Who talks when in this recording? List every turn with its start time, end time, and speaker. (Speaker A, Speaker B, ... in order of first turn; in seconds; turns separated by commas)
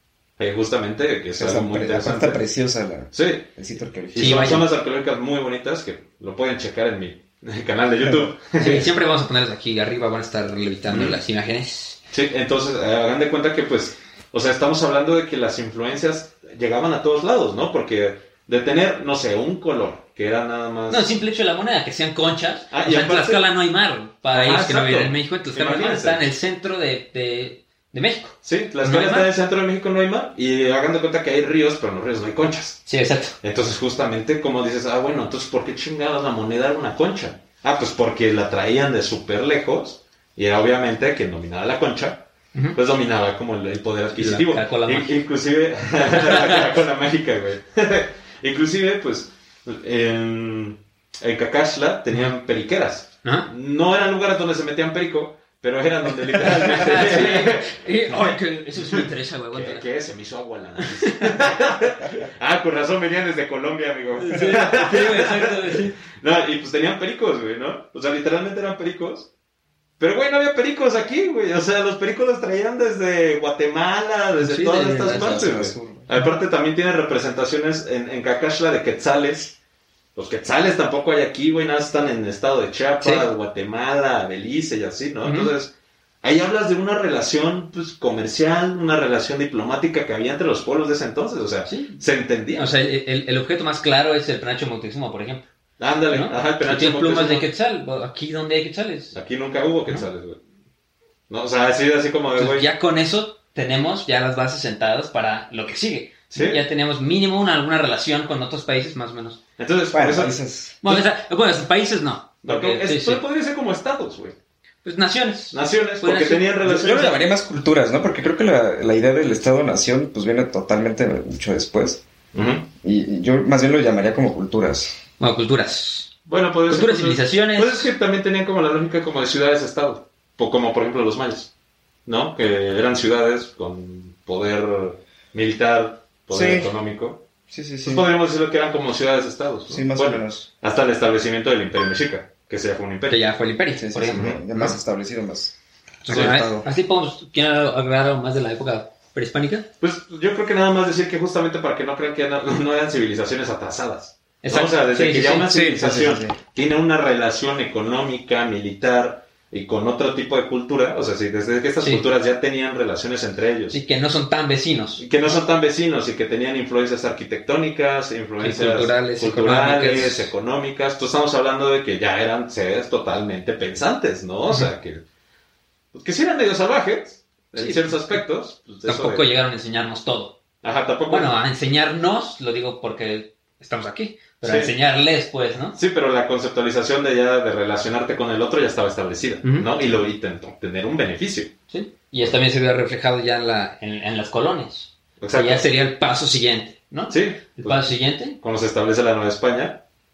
Speaker A: 0.4-2.4, Speaker B: 1.4-4.6, Speaker A: 3.1-3.6, Speaker A: 4.1-8.9, Speaker C: 4.2-4.7, Speaker C: 8.6-12.0, Speaker A: 10.9-11.2, Speaker A: 12.1-21.1, Speaker C: 20.9-29.3, Speaker A: 22.7-23.5, Speaker A: 24.3-26.2, Speaker A: 28.4-32.9, Speaker C: 32.9-33.4, Speaker A: 33.4-69.3, Speaker C: 44.1-45.1, Speaker C: 46.1-46.6, Speaker C: 53.2-53.5, Speaker C: 56.4-59.8, Speaker C: 61.0-61.4, Speaker C: 64.2-66.0, Speaker A: 70.0-79.5, Speaker C: 74.4-75.5, Speaker B: 75.0-76.1, Speaker A: 80.2-85.7, Speaker C: 83.0-83.3, Speaker C: 85.2-85.5, Speaker A: 86.2-92.7, Speaker C: 91.7-92.0, Speaker C: 92.5-95.5, Speaker A: 95.8-97.5, Speaker C: 96.1-99.2, Speaker A: 99.1-100.4, Speaker A: 101.3-102.7, Speaker C: 102.3-109.4, Speaker A: 106.3-106.6, Speaker A: 109.6-111.0, Speaker B: 109.9-110.8, Speaker C: 110.8-113.2, Speaker A: 112.4-114.4, Speaker C: 114.8-117.1, Speaker A: 115.5-117.3, Speaker B: 116.7-122.0, Speaker A: 122.3-122.7, Speaker B: 122.8-125.0, Speaker C: 125.2-126.1, Speaker A: 126.3-131.5, Speaker C: 126.7-127.9, Speaker A: 132.1-137.2, Speaker B: 136.3-136.8, Speaker B: 137.5-138.1, Speaker A: 137.8-143.3, Speaker B: 139.7-140.5, Speaker C: 143.1-144.3, Speaker B: 143.8-145.6, Speaker A: 144.1-144.8, Speaker C: 146.1-149.7, Speaker B: 146.1-146.7, Speaker A: 149.8-163.8, Speaker C: 154.4-155.4, Speaker B: 155.4-156.4, Speaker C: 163.7-165.1, Speaker A: 165.0-175.0, Speaker C: 168.4-170.3, Speaker A: 175.9-179.3, Speaker C: 177.6-178.2, Speaker C: 178.9-180.3, Speaker A: 180.6-181.4, Speaker C: 181.1-185.8, Speaker A: 184.4-184.7, Speaker A: 185.8-191.5, Speaker C: 189.4-189.7, Speaker C: 191.7-198.4, Speaker A: 195.2-195.7, Speaker A: 197.1-199.8